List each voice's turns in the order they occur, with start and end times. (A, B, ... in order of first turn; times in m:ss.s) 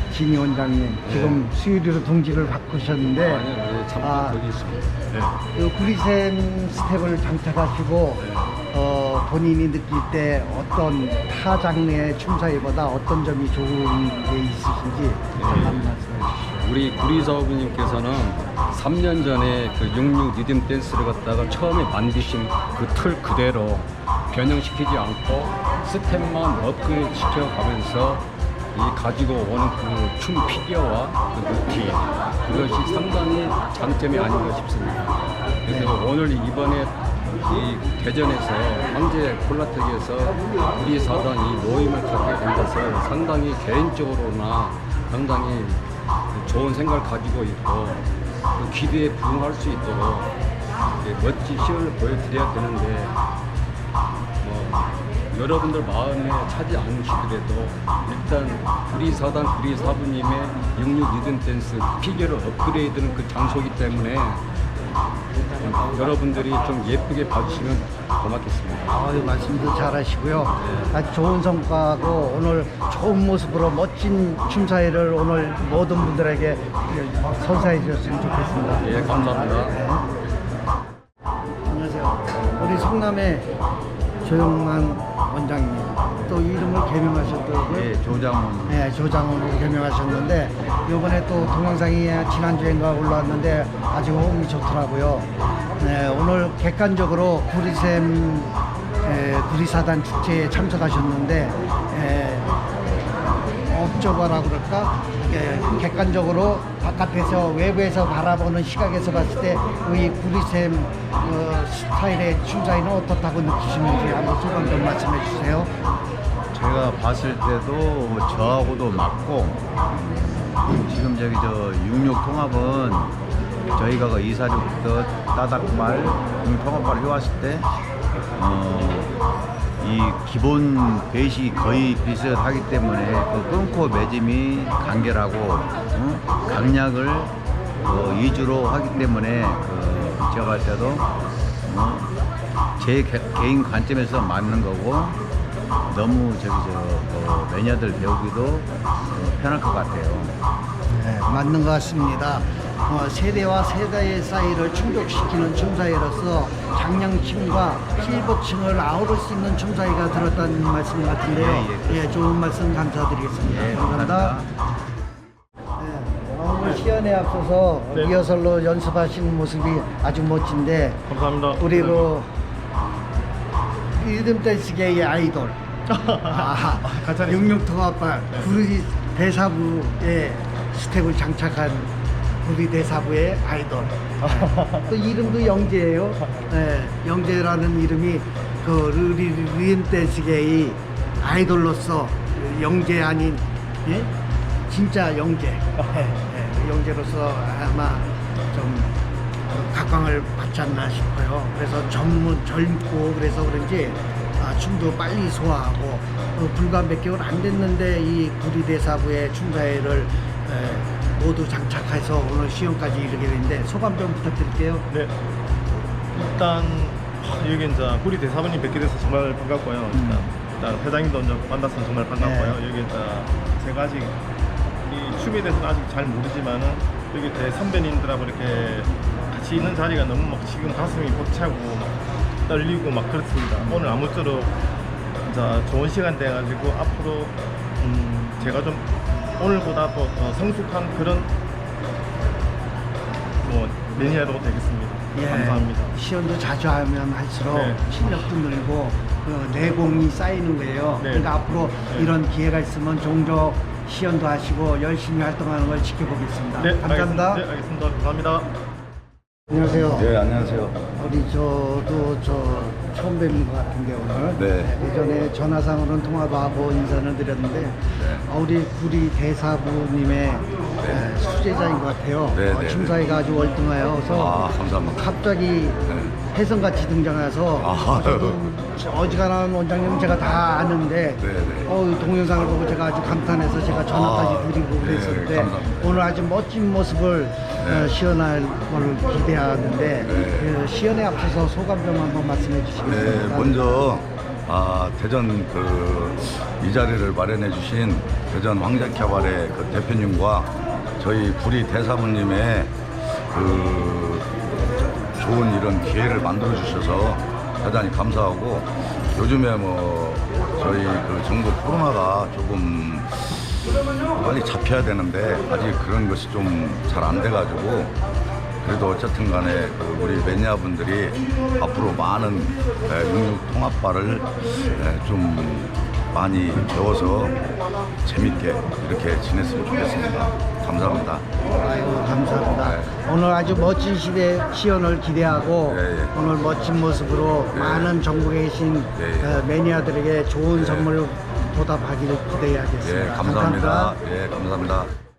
0:00.1-0:03.5 A
0:01.0-0:01.4 B
0:03.2-0:04.8 B
0:04.0-0:04.4 A
0:05.6-0:16.6 A
0:08.2-0:08.5 B
0:15.4-0:15.9 B
0:16.6-0:35.2 B
0:35.7-0:36.0 A
0:35.7-0:45.8 B
0:46.3-0:48.0 B
0:48.6-0:50.3 B
0:51.0-0:53.1 B
0:54.4-1:04.4 B
1:05.6-1:08.9 B
1:08.9-1:20.1 A
1:18.8-1:19.8 B
1:21.7-1:23.5 A
1:24.2-1:27.9 A
1:27.7-1:28.8 C
1:28.7-1:35.3 A
1:35.8-1:42.5 A
1:43.7-1:55.7 A
1:56.5-2:03.2 C
2:03.7-2:07.7 C
2:08.4-2:09.1 C
2:09.8-2:17.3 C
2:17.8-2:21.1 C
2:21.6-2:22.1 C
2:22.8-2:25.2 C
2:25.9-2:30.4 C
2:30.9-2:44.4 A
2:41.3-2:42.2 C
2:43.4-2:44.5 C
2:45.8-2:51.0 A
2:47.9-2:48.2 D
2:51.1-2:52.1 D
2:51.6-2:52.3 A
2:53.9-2:55.6 A
2:55.9-2:57.6 D
2:56.3-3:14.1 A
2:58.3-2:58.6 D
3:04.2-3:04.9 D
3:06.2-3:06.5 D
3:14.7-3:34.9 A
3:34.9-3:35.2 D
3:36.1-3:44.2 D
3:39.9-3:40.3 A
3:42.2-3:42.6 A
3:44.8-3:54.6 D
3:55.2-4:01.3 D
4:03.4-4:05.9 D
4:05.2-4:17.4 A
4:07.5-4:07.8 D
4:11.0-4:11.3 D
4:16.6-4:18.5 D
4:19.5-4:20.2 A
4:20.0-4:20.8 E
4:21.0-4:34.4 A
4:24.4-4:24.8 E
4:28.0-4:28.3 E
4:30.8-4:31.1 E
4:32.3-4:33.2 E
4:34.1-4:35.1 E
4:34.9-4:53.6 A
4:35.9-4:36.2 E
4:37.6-4:38.5 E
4:41.2-4:41.8 E
4:43.7-4:46.1 E
4:47.6-4:48.0 E
4:50.0-4:50.6 E
4:52.8-5:02.7 E
5:03.3-5:04.3 E
5:05.2-5:13.6 E
5:14.1-5:17.9 E
5:18.6-5:27.4 E
5:28.0-5:31.2 E
5:31.5-5:44.0 A
5:32.5-5:32.9 E
5:35.6-5:36.2 E
5:37.5-5:38.0 E
5:39.0-5:39.4 E
5:40.5-5:41.0 E
5:42.8-5:44.9 E